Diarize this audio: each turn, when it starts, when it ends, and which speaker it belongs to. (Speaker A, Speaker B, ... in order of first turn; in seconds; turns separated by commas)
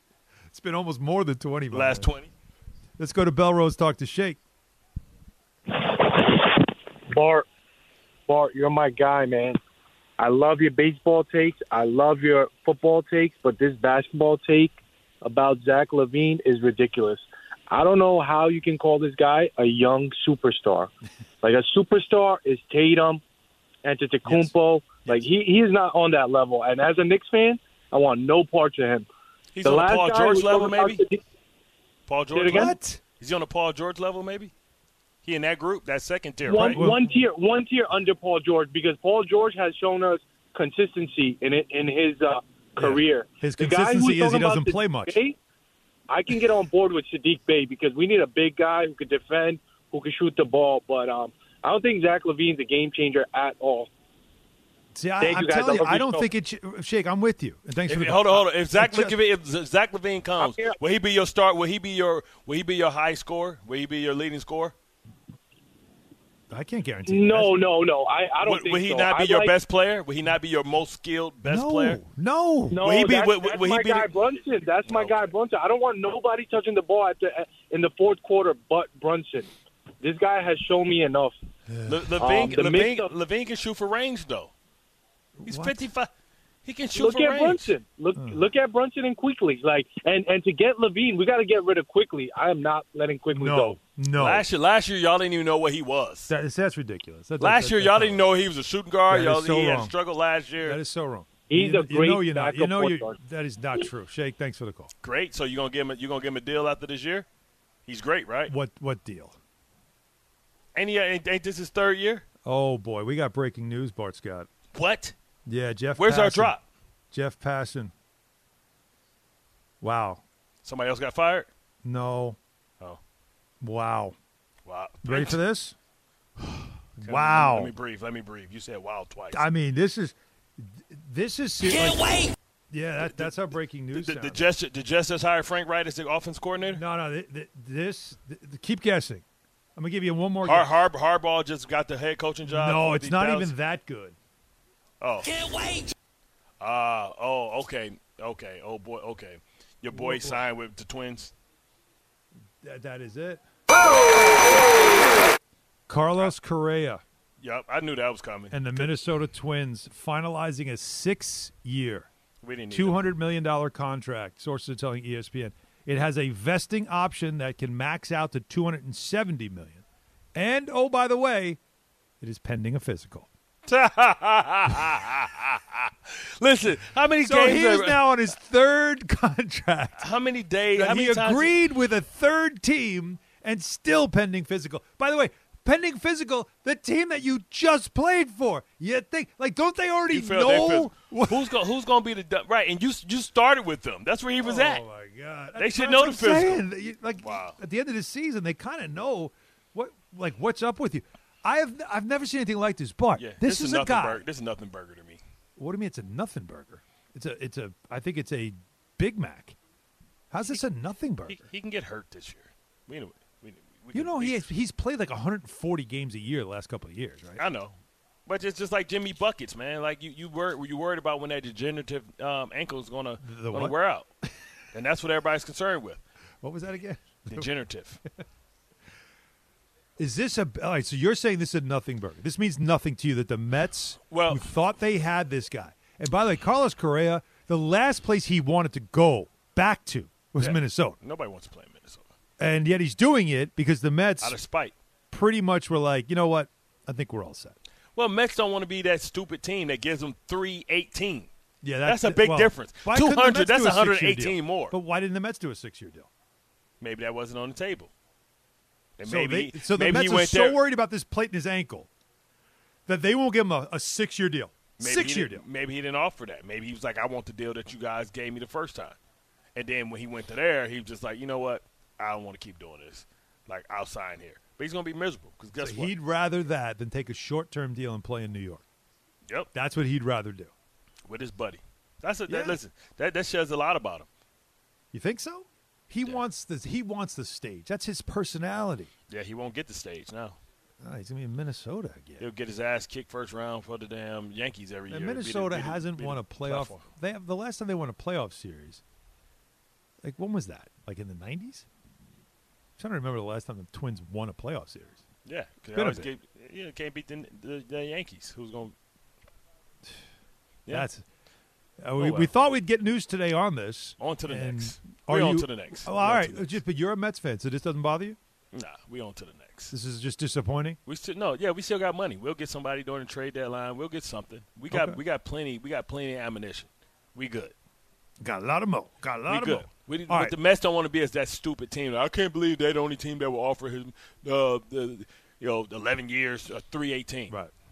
Speaker A: 0.5-2.1, Speaker B: 1.7-2.3, Speaker A: 3.0-4.4, Speaker C: 5.8-6.5, Speaker C: 7.1-7.5, Speaker C: 8.3-9.6, Speaker C: 10.2-20.9, Speaker C: 21.4-23.2, Speaker C: 23.8-29.1, Speaker A: 24.2-24.5, Speaker B: 29.5-31.0, Speaker C: 29.6-31.2, Speaker B: 32.1-34.5, Speaker C: 32.3-32.8, Speaker A: 32.5-33.0, Speaker B: 35.2-36.9, Speaker C: 36.5-45.4, Speaker A: 36.5-37.1, Speaker A: 42.8-45.2, Speaker C: 46.1-53.9, Speaker A: 54.9-59.2, Speaker C: 55.2-56.3, Speaker B: 57.9-64.7, Speaker C: 60.4-60.8, Speaker A: 66.5-67.6, Speaker C: 67.1-69.6, Speaker B: 68.4-72.0, Speaker A: 71.5-72.8, Speaker C: 72.7-81.4, Speaker B: 72.7-74.2, Speaker B: 74.8-75.3, Speaker A: 81.7-82.1, Speaker B: 81.9-84.5, Speaker C: 82.2-83.1, Speaker A: 85.4-85.8, Speaker B: 85.5-86.1, Speaker B: 86.7-87.7, Speaker C: 87.0-93.8, Speaker A: 93.3-94.5, Speaker B: 94.1-96.3, Speaker A: 96.3-98.2, Speaker B: 97.4-100.8, Speaker A: 99.1-99.9, Speaker A: 100.6-104.9, Speaker C: 101.5-103.2, Speaker B: 105.0-107.3, Speaker B: 107.9-108.5, Speaker A: 108.5-109.4, Speaker B: 110.8-112.2, Speaker A: 112.5-114.5, Speaker B: 114.7-115.2, Speaker A: 115.5-116.5, Speaker B: 116.0-116.6, Speaker A: 117.1-117.9, Speaker A: 119.8-120.2, Speaker B: 120.6-121.5, Speaker A: 121.8-122.4, Speaker A: 123.6-124.2, Speaker B: 124.7-125.4, Speaker A: 125.0-125.8, Speaker A: 127.0-127.7, Speaker B: 127.0-129.4, Speaker A: 129.3-132.0, Speaker B: 131.7-132.3, Speaker A: 132.7-134.4, Speaker B: 133.9-136.8, Speaker A: 136.7-139.2, Speaker A: 139.8-140.7, Speaker B: 140.4-143.5, Speaker A: 142.4-144.2, Speaker B: 145.0-145.9, Speaker B: 146.6-151.3, Speaker A: 149.9-150.4, Speaker A: 152.6-153.4, Speaker A: 155.9-157.0, Speaker B: 157.4-158.9, Speaker A: 158.5-162.1, Speaker B: 162.4-163.1, Speaker A: 162.7-169.8, Speaker A: 170.3-171.6, Speaker A: 172.2-173.3, Speaker B: 173.7-178.1, Speaker A: 177.2-180.0, Speaker B: 180.0-181.6, Speaker A: 180.8-191.6, Speaker B: 190.1-194.8, Speaker A: 194.4-204.2, Speaker B: 195.6-196.6, Speaker B: 197.2-197.6, Speaker B: 203.2-205.2, Speaker A: 205.6-209.6, Speaker A: 210.3-211.4, Speaker B: 211.3-214.4, Speaker A: 213.9-217.4, Speaker B: 217.4-217.7, Speaker B: 218.3-224.1, Speaker A: 223.2-223.7, Speaker B: 224.7-226.0, Speaker A: 226.4-227.5, Speaker B: 227.3-228.0, Speaker A: 230.0-241.0, Speaker B: 234.1-234.5, Speaker B: 240.4-242.0, Speaker A: 242.4-244.4, Speaker B: 244.2-244.7, Speaker A: 245.1-247.6, Speaker B: 248.0-251.3, Speaker A: 251.6-256.1, Speaker B: 251.8-254.8, Speaker B: 256.8-257.9, Speaker B: 259.0-260.6, Speaker A: 259.1-261.9, Speaker A: 262.9-265.4, Speaker B: 264.8-269.0, Speaker B: 269.6-275.9, Speaker A: 275.6-278.6, Speaker A: 279.5-280.5, Speaker B: 281.1-284.1, Speaker A: 282.3-282.6, Speaker A: 284.9-288.9, Speaker B: 289.1-290.4, Speaker A: 290.8-292.3, Speaker B: 292.2-296.9, Speaker A: 294.9-298.8, Speaker A: 300.0-301.7, Speaker A: 302.8-305.0, Speaker B: 305.3-308.7, Speaker A: 305.7-306.1, Speaker A: 310.7-311.0, Speaker A: 311.8-318.2, Speaker B: 312.0-312.3, Speaker B: 314.0-316.6, Speaker B: 318.5-319.7, Speaker A: 319.7-320.8, Speaker B: 320.9-327.5, Speaker A: 324.7-325.0, Speaker A: 328.2-330.4, Speaker B: 329.3-337.4